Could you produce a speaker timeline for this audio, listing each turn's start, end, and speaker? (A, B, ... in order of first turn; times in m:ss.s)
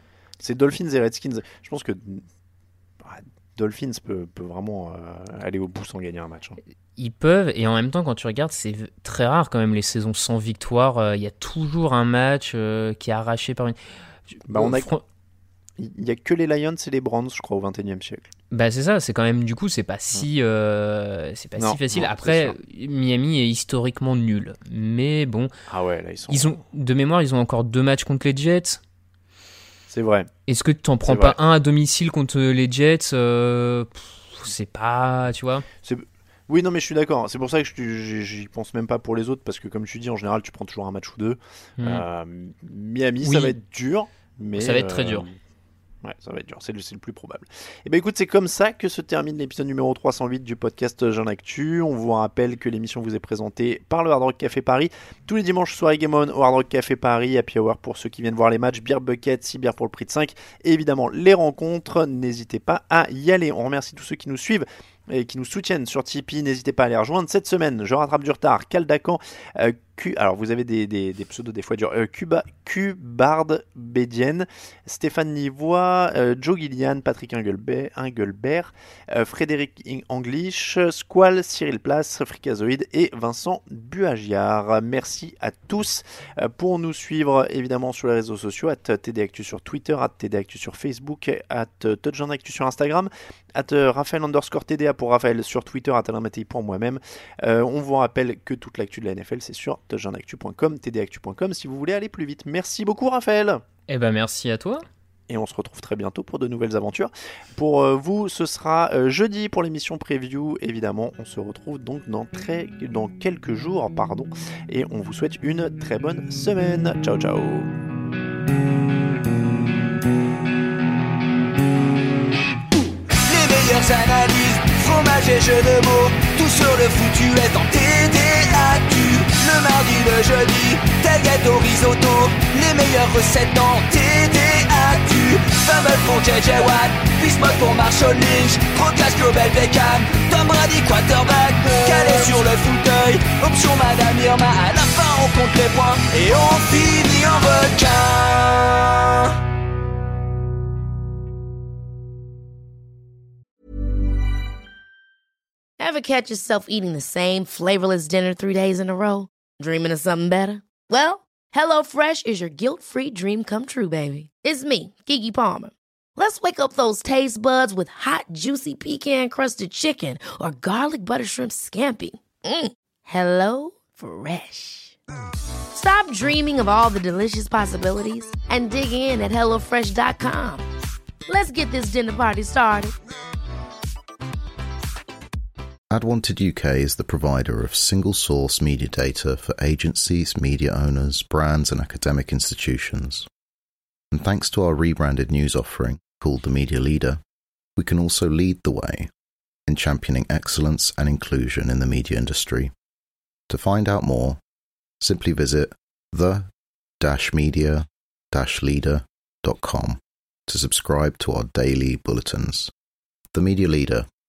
0:00.4-0:02.2 A
0:03.0-0:06.6 A
0:07.0-0:13.8 B
0:14.3-0:15.0 B
0:14.5-0:14.9 A
0:15.8-0:18.3 A
0:18.5-0:25.5 B
0:21.6-0:22.6 A
0:25.7-0:26.6 A
0:26.3-0:28.8 B
0:29.9-0:30.3 A
0:30.5-0:35.7 B
0:31.1-0:31.4 A
0:35.8-0:45.4 A
0:43.2-0:43.5 B
0:44.6-0:45.3 B
0:46.0-1:43.6 A
1:43.9-1:44.8 B
1:45.3-1:57.7 A
2:03.2-2:29.3 C
2:35.8-2:55.0 D
2:55.7-3:00.6 D
3:01.3-3:02.9 D
3:05.9-3:13.3 E
3:14.1-3:17.2 E
3:17.8-3:19.1 E
3:19.7-3:22.7 E
3:23.5-3:24.4 E
3:25.0-3:26.5 E
3:27.0-3:32.7 E
3:33.3-3:34.1 E